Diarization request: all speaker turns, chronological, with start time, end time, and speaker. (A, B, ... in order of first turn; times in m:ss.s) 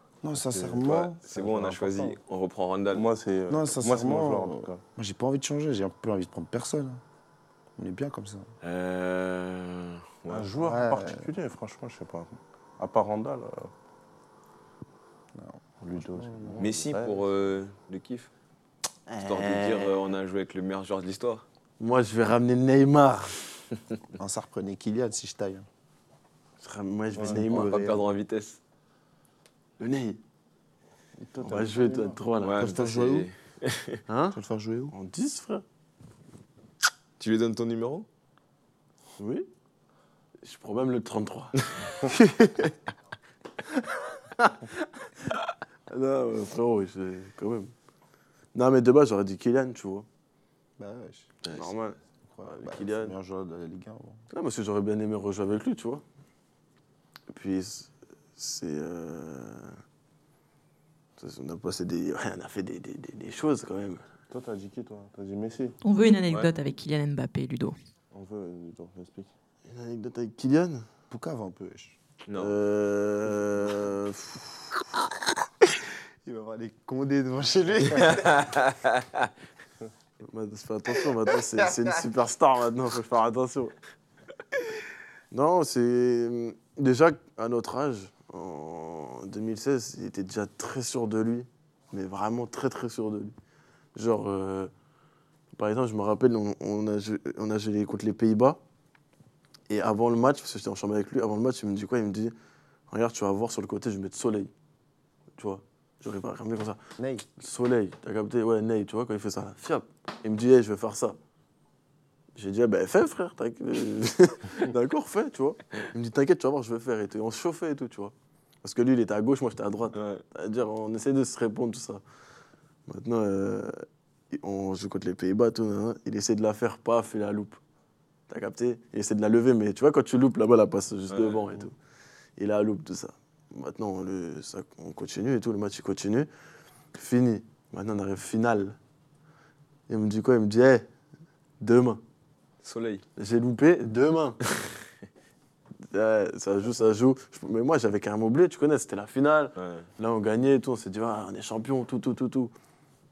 0:00.2-0:01.2 A
0:00.4-0:02.2 B
0:01.2-0:03.1 C
0:02.9-0:04.8 B
0:03.5-0:07.0 A
0:07.8-0:08.5 A
0:08.6-0:10.5 C
0:10.3-0:13.7 B
0:10.6-0:11.3 A
0:15.4-0:16.7 A
0:15.8-0:17.2 B
0:16.6-0:18.3 C
0:19.1-0:20.1 D
0:19.2-0:21.4 C
0:21.8-0:23.4 D
0:24.2-0:25.7 A
0:26.6-0:27.8 D
0:27.2-0:27.4 B
0:27.2-0:28.0 A
0:27.5-0:28.6 C
0:29.8-0:30.2 D
0:31.2-0:32.2 B
0:31.4-0:32.8 D
0:32.4-0:34.0 C
0:32.6-0:33.3 A
0:34.1-0:34.4 D
0:34.3-0:34.9 A
0:34.9-0:35.6 D
0:37.2-0:38.1 C
0:39.2-0:39.5 D
0:40.4-0:41.5 D
0:42.0-0:42.7 D
0:44.4-0:44.9 D
0:45.9-0:47.7 D
0:48.5-0:50.1 D
0:50.8-0:51.3 A
0:51.5-0:51.7 C
0:51.5-0:53.2 D
0:52.3-0:54.2 A
0:54.3-0:56.0 D
0:57.3-0:59.8 D
1:01.2-1:04.0 D
1:04.3-1:05.8 B
1:05.8-1:07.8 E
1:08.1-1:09.3 B
1:09.7-1:10.9 D
1:11.1-1:12.0 A
1:12.3-1:12.6 C
1:12.4-1:14.5 D
1:16.2-1:18.5 A
1:18.1-1:19.0 C
1:20.2-1:23.8 D
1:25.3-1:33.3 D
1:33.9-1:34.7 D
1:35.5-1:38.6 D
1:39.7-1:42.4 D
1:42.9-1:44.5 D
1:45.4-1:51.2 D
1:47.0-1:47.2 A
1:52.4-2:02.0 D
1:59.9-2:00.2 C
2:02.9-2:07.6 D
2:08.3-2:11.8 D
2:11.1-2:11.5 C
2:12.4-2:16.3 D
2:16.9-2:18.8 D
2:19.9-2:20.9 D
2:21.6-2:22.0 D
2:22.6-2:23.0 C
2:23.2-2:24.4 D
2:25.8-2:32.5 D
2:29.6-2:29.9 C